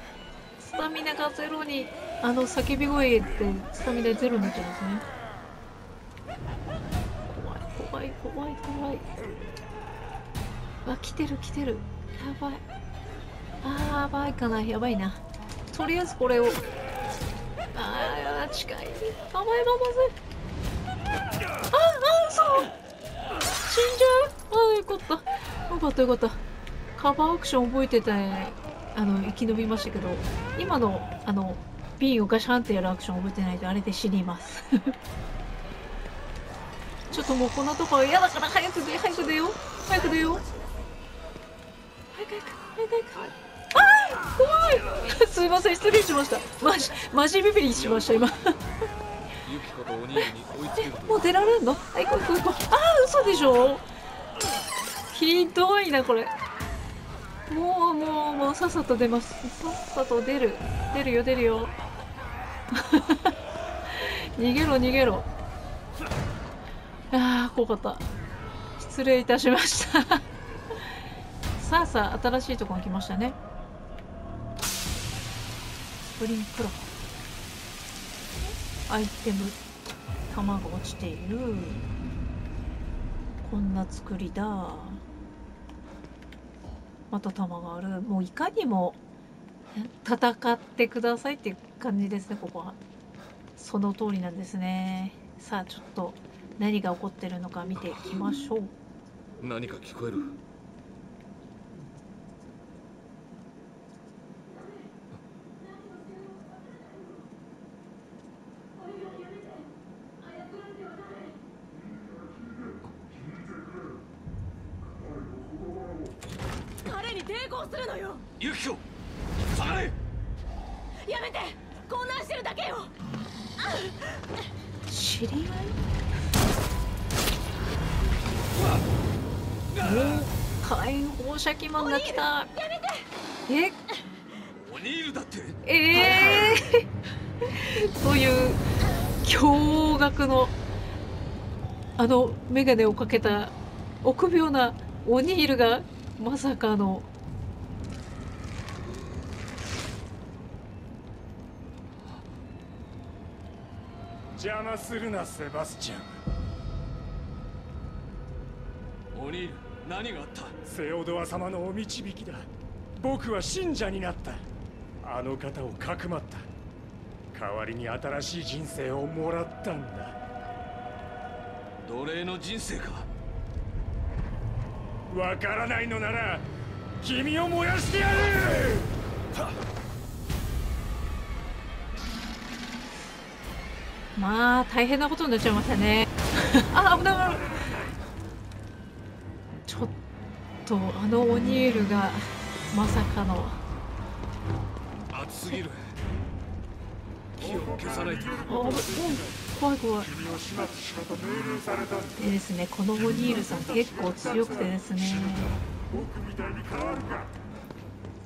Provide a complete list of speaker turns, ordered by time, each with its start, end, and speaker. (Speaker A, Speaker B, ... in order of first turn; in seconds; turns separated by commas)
Speaker A: 0.6-5.1, Speaker A: 7.2-9.3, Speaker A: 10.8-12.6, Speaker A: 13.6-16.7, Speaker A: 17.7-20.1, Speaker A: 21.7-22.7, Speaker A: 23.6-26.4, Speaker A: 26.9-35.0, Speaker A: 37.1-40.4, Speaker A: 42.1-48.6, Speaker B: 49.4-51.4, Speaker A: 50.8-53.9, Speaker A: 55.1-56.3, Speaker A: 57.5-61.7, Speaker A: 62.7-63.3, Speaker A: 63.9-65.3, Speaker A: 67.1-68.0, Speaker A: 68.8-70.9, Speaker A: 71.6-73.4, Speaker A: 76.1-77.0, Speaker A: 78.5-79.6, Speaker A: 80.3-81.8, Speaker A: 83.4-85.0, Speaker A: 87.1-89.0, Speaker A: 89.7-92.8, Speaker A: 93.5-98.7, Speaker B: 99.4-100.4, Speaker C: 116.8-118.2, Speaker B: 118.4-118.8, Speaker B: 119.5-119.9, Speaker C: 121.0-122.9, Speaker C: 123.6-123.9, Speaker A: 124.9-125.8, Speaker A: 129.8-132.5, Speaker C: 131.8-133.1, Speaker A: 133.5-133.8, Speaker B: 134.6-136.5, Speaker A: 135.6-136.9, Speaker A: 137.4-140.5, Speaker A: 142.0-147.1, Speaker D: 154.3-156.2, Speaker B: 159.1-160.6, Speaker D: 160.6-164.4, Speaker D: 165.0-166.5, Speaker D: 167.3-170.2, Speaker B: 171.8-173.1, Speaker D: 175.1-176.5, Speaker D: 177.0-179.0, Speaker A: 184.2-187.6, Speaker A: 189.7-190.0, Speaker A: 190.6-193.6, Speaker B: 195.1-195.9, Speaker B: 197.4-198.8, Speaker D: 197.4-199.5, Speaker A: 198.4-200.1, Speaker D: 200.1-202.1, Speaker A: 202.2-205.6, Speaker D: 205.9-207.3